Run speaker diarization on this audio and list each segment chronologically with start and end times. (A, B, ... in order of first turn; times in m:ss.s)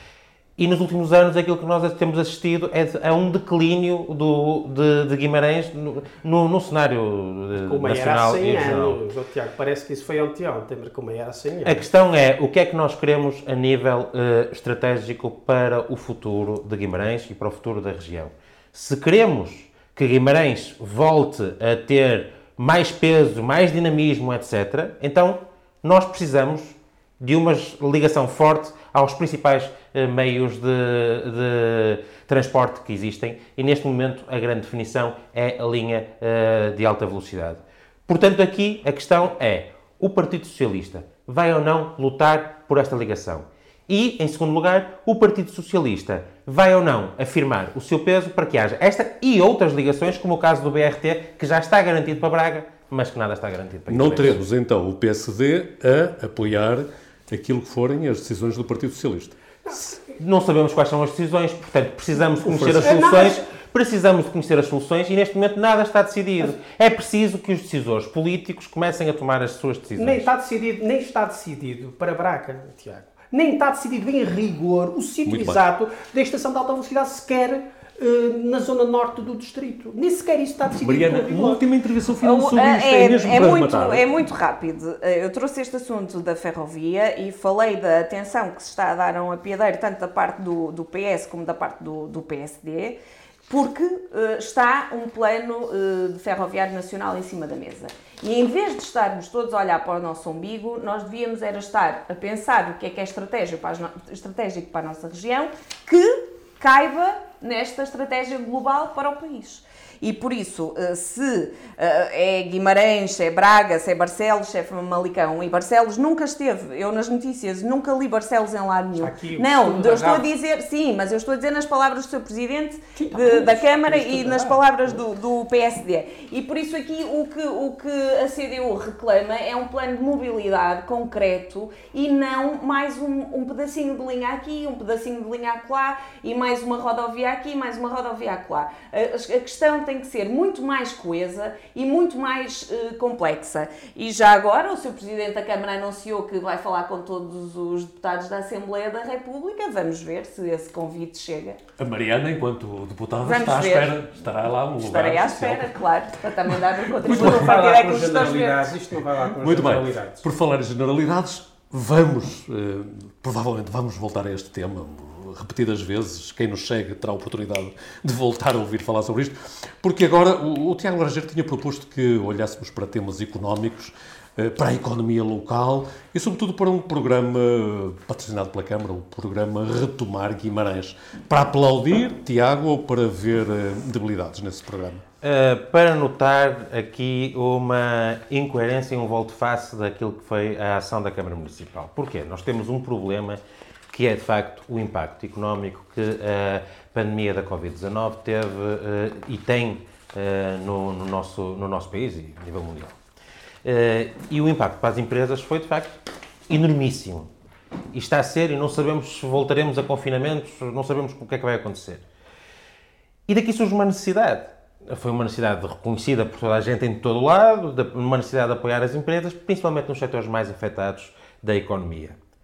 0:00.6-0:09.0 A
0:07.6-0:11.8 B
0:11.6-0:54.4 A
0:53.9-0:59.4 C
1:00.2-1:10.3 A
1:02.5-1:03.0 C
1:02.6-1:03.4 B
1:10.0-1:21.6 B
1:15.2-1:15.6 C
1:20.8-1:24.0 C
1:22.2-1:33.0 D
1:33.5-2:31.6 D
1:59.0-2:00.2 B
2:03.0-2:04.6 B
2:31.8-2:35.7 C
2:33.2-2:34.0 D
2:34.8-2:38.6 D
2:37.0-2:37.6 C
2:37.0-2:40.2 B
2:39.4-3:05.0 C
3:05.2-3:13.4 A
3:13.9-3:22.9 A
3:23.6-3:26.0 A
3:26.5-3:27.3 A
3:27.9-3:32.0 A
3:33.3-3:42.2 A